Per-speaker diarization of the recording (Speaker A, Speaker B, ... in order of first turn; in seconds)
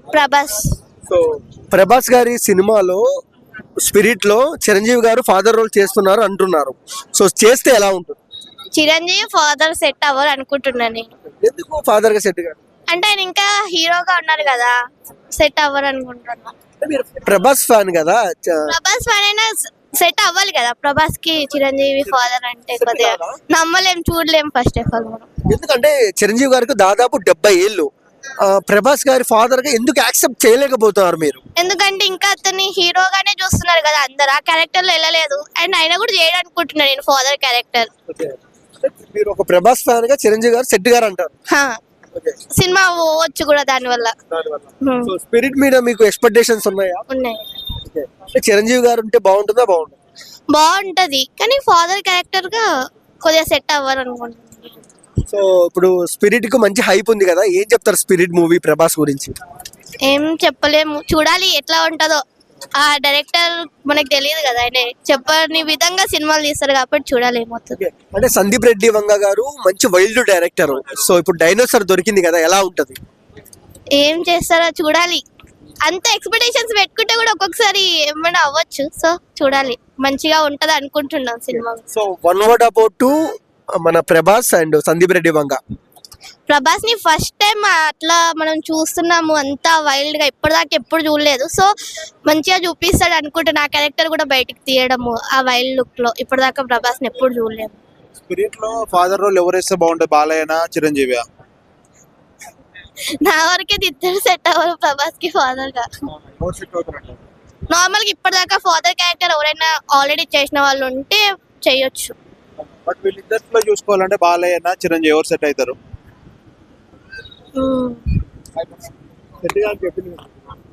Speaker A: 0.1-0.8, 8.7-11.1, 12.9-14.7, 15.3-16.5, 18.7-25.3, 31.6-37.9, 41.5-41.8, 42.5-44.1, 44.8-45.1, 47.1-47.5, 50.5-52.7, 53.2-54.8, 60.0-62.2, 62.8-67.8, 74.0-75.2, 75.8-81.9, 86.5-91.7, 92.3-97.8, 103.2-105.9, 107.7-112.2, 117.6-118.0
Speaker B: 1.1-3.0, 3.8-8.2, 11.4-12.6, 16.8-18.7, 22.1-23.4, 25.5-27.9, 28.4-31.4, 38.1-41.4, 42.1-42.4, 44.3-47.0, 47.9-50.0, 55.3-59.3, 67.8-73.0, 81.5-83.1, 83.8-85.6, 106.3-107.1, 119.4-120.3
Speaker C: 98.3-101.3, 112.9-115.8